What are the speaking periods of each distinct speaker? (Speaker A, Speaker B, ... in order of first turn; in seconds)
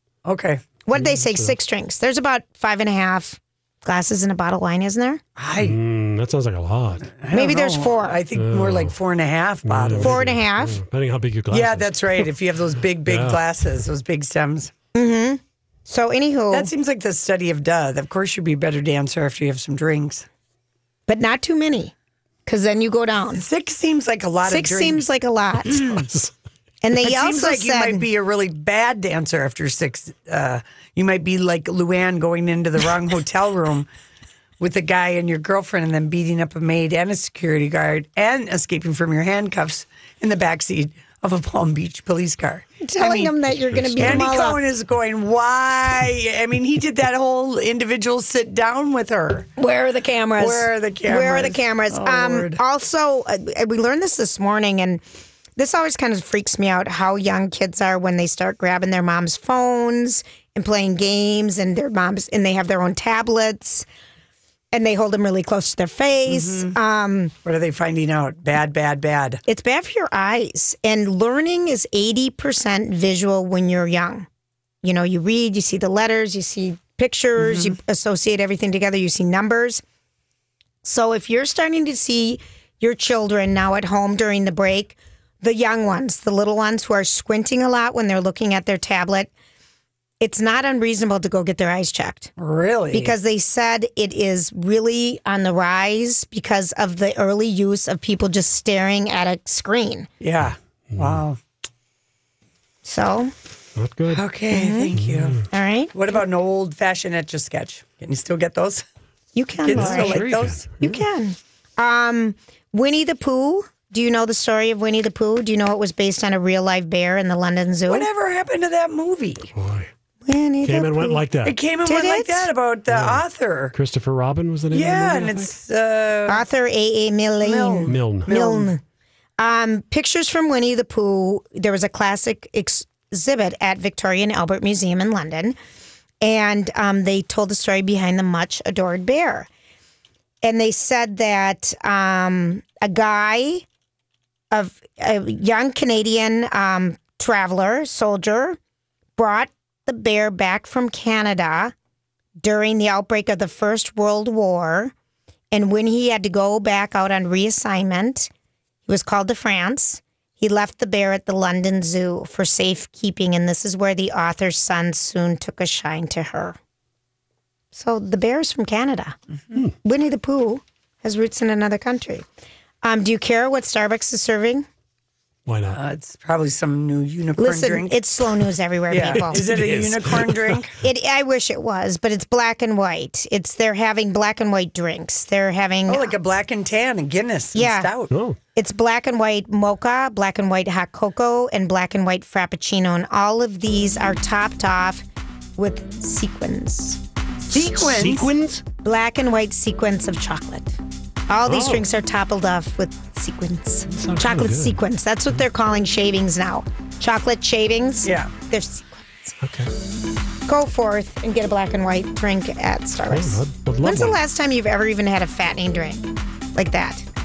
Speaker A: 0.2-0.7, 5.4-5.8, 7.1-10.2, 11.5-14.7, 16.5-20.2, 23.3-25.0, 25.7-26.1, 27.0-33.9, 34.6-43.3, 44.0-49.5, 50.4-52.6, 66.3-66.7, 67.4-69.4, 77.4-77.7, 92.4-93.1, 100.2-101.4, 104.1-105.4, 105.9-108.8, 109.7-110.7, 117.9-119.5, 121.4-123.7, 124.7-126.4, 127.4-128.7, 175.7-177.9, 178.9-180.7, 185.9-188.1, 197.5-198.3, 208.0-208.3
Speaker B: 0.8-5.2, 7.3-8.2, 10.0-10.8, 14.9-16.7, 21.1-21.9, 22.4-23.4, 24.4-25.9, 26.8-28.1, 42.8-44.6, 49.6-55.0, 55.5-63.9, 64.7-67.3, 69.5-74.3, 74.8-79.8, 80.8-89.3, 90.2-92.3, 92.9-100.1, 102.8-103.3, 104.5-104.9, 105.5-105.9, 109.3-110.3, 110.8-118.1, 120.2-121.2, 121.8-122.5, 126.3-128.8, 129.4-135.6, 136.2-139.5, 140.4-143.6, 144.5-148.6, 149.2-151.7, 152.4-154.9, 155.5-158.3, 158.9-166.6, 167.7-169.2, 169.8-172.2, 172.8-174.7, 177.4-179.5, 180.8-186.2, 187.5-187.9, 188.5-195.0, 195.6-197.0, 198.8-200.8, 201.3-209.3, 210.5-217.0
Speaker C: 0.9-1.5, 5.6-7.1, 8.3-8.9, 9.6-12.2, 13.0-13.4, 43.7-44.3, 100.9-101.2, 103.8-104.2, 104.9-105.4, 109.7-110.9, 119.5-119.9, 120.6-121.6, 122.9-125.5, 127.9-128.3, 175.5-175.8, 179.0-180.6, 188.1-188.4, 197.6-198.6, 201.5-201.8, 203.9-204.8, 209.4-209.7, 213.1-214.2